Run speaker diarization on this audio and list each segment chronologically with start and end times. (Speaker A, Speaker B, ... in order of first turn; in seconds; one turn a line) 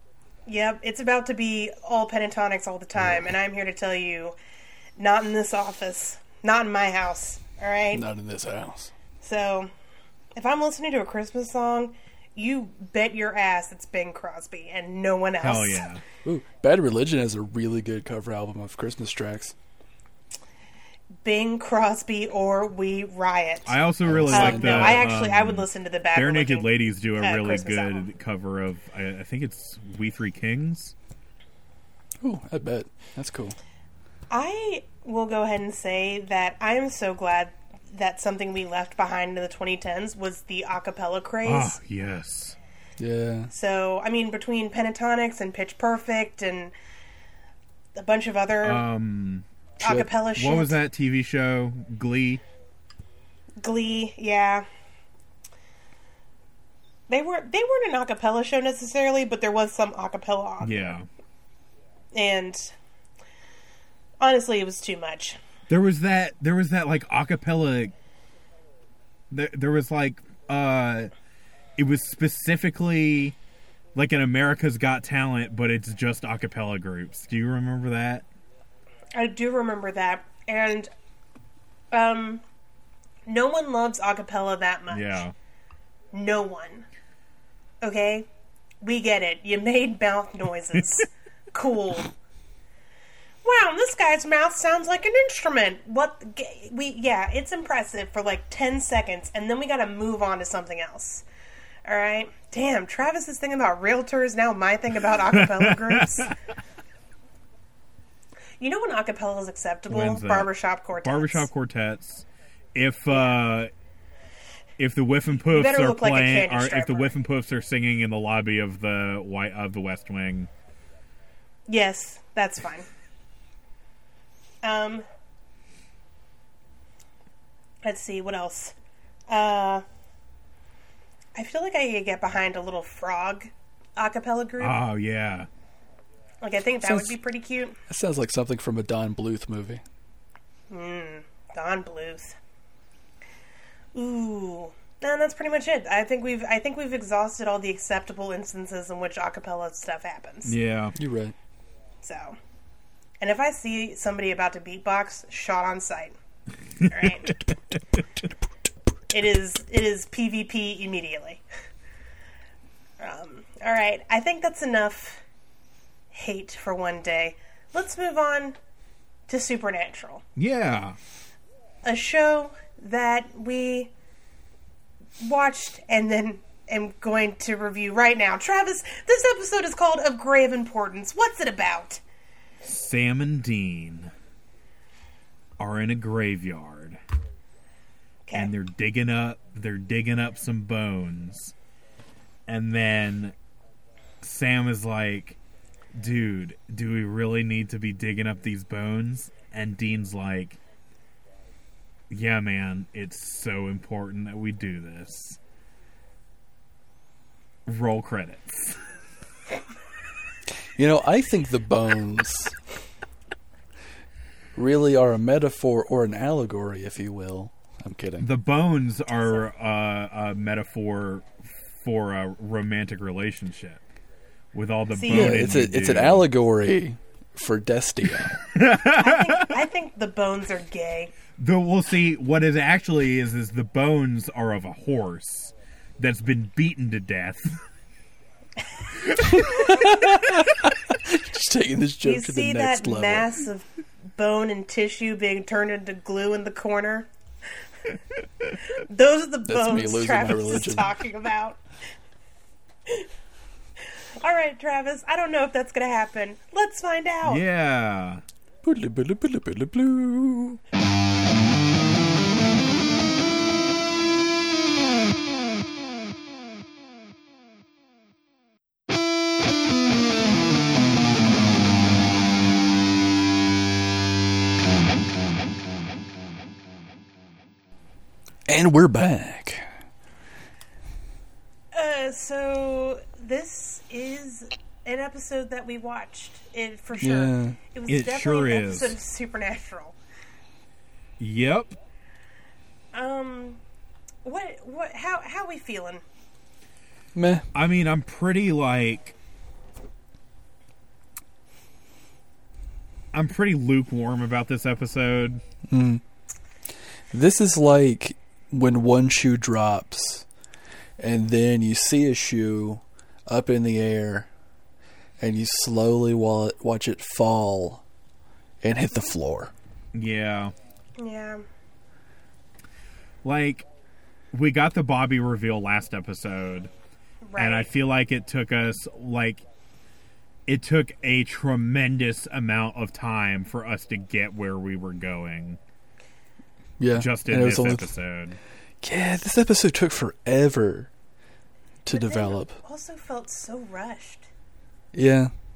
Speaker A: 0.5-4.3
Speaker B: 3.0-3.3
Speaker A: 5.0-8.1
Speaker B: 7.9-8.9
Speaker A: 9.2-9.7
Speaker A: 10.3-15.9
Speaker C: 15.4-16.0
Speaker B: 16.2-19.5
Speaker A: 21.2-23.8
Speaker C: 23.7-30.9
Speaker B: 24.0-25.1
Speaker A: 24.3-28.1
Speaker B: 32.2-33.6
Speaker A: 34.3-41.8
Speaker C: 41.4-42.6
Speaker B: 43.0-43.5
Speaker A: 43.5-46.7
Speaker A: 47.9-48.8
Speaker C: 48.6-49.4
Speaker A: 49.8-50.8
Speaker B: 49.8-50.1
Speaker C: 50.3-52.4
Speaker A: 53.6-54.6
Speaker A: 57.1-61.0
Speaker C: 60.6-61.1
Speaker A: 62.1-62.7
Speaker A: 64.2-65.4
Speaker C: 65.7-67.9
Speaker C: 69.3-71.1
Speaker C: 71.8-73.3
Speaker C: 73.9-78.2
Speaker A: 79.1-80.9
Speaker A: 81.9-82.4
Speaker A: 83.2-85.2
Speaker C: 84.9-85.3
Speaker A: 86.1-86.8
Speaker A: 87.8-88.3
Speaker A: 88.8-92.1
Speaker A: 93.4-101.2
Speaker A: 101.8-106.3
Speaker C: 105.3-106.3
Speaker A: 108.6-111.5
Speaker C: 109.9-113.7
Speaker A: 113.1-113.4
Speaker C: 114.8-120.5
Speaker A: 115.5-117.2
Speaker A: 121.7-122.9
Speaker A: 124.6-125.0
Speaker A: 127.8-128.7
Speaker A: 129.3-129.8
Speaker A: 131.3-134.8
Speaker C: 134.6-135.5
Speaker A: 136.4-137.8
Speaker B: 136.8-137.2
Speaker B: 137.9-139.8
Speaker A: 140.7-142.4
Speaker A: 143.9-150.6
Speaker C: 150.4-150.9
Speaker B: 150.9-151.3
Speaker A: 152.0-152.4
Speaker A: 153.2-156.1
Speaker A: 156.8-157.4
Speaker A: 159.1-161.4
Speaker A: 163.0-165.2
Speaker A: 166.1-168.6
Speaker A: 169.3-170.2
Speaker C: 170.3-171.0
Speaker A: 171.8-173.9
Speaker A: 175.2-182.0
Speaker C: 182.6-184.1
Speaker C: 185.6-187.0
Speaker A: 188.3-188.5
Speaker C: 188.3-191.5
Speaker C: 192.5-193.3
Speaker C: 194.2-195.4
Speaker C: 195.9-200.6
Speaker C: 202.1-205.4
Speaker C: 207.7-208.8
Speaker B: 210.8-212.5
Speaker B: 214.5-218.3
Speaker C: 218.2-223.8
Speaker C: 224.5-226.3
Speaker A: 224.9-225.5
Speaker B: 225.1-228.4
Speaker C: 228.4-229.5
Speaker A: 228.9-231.1
Speaker C: 231.4-237.6
Speaker C: 239.3-239.8
Speaker B: 239.4-243.3
Speaker A: 242.0-247.1
Speaker A: 248.6-251.6
Speaker B: 249.4-250.9
Speaker A: 254.2-257.4
Speaker C: 257.2-258.2
Speaker B: 258.6-260.6
Speaker B: 278.5-279.7
Speaker A: 281.7-290.0
Speaker B: 287.0-287.6
Speaker C: 287.9-288.9
Speaker C: 291.2-291.8
Speaker A: 292.9-293.6
Speaker A: 294.2-296.0
Speaker B: 297.1-297.5
Speaker C: 297.5-299.1
Speaker C: 303.1-305.4
Speaker B: 305.7-306.0
Speaker B: 307.1-310.3
Speaker B: 311.0-314.3
Speaker B: 315.2-317.8
Speaker B: 318.6-319.5
Speaker C: 319.9-320.5
Speaker A: 321.0-321.4
Speaker C: 323.2-323.6
Speaker C: 324.3-326.7
Speaker A: 327.2-327.7
Speaker C: 327.4-329.4
Speaker C: 330.5-335.6
Speaker B: 336.8-337.9
Speaker C: 336.9-338.4
Speaker B: 338.8-340.9
Speaker B: 341.8-342.6
Speaker A: 341.9-344.3
Speaker B: 344.9-345.3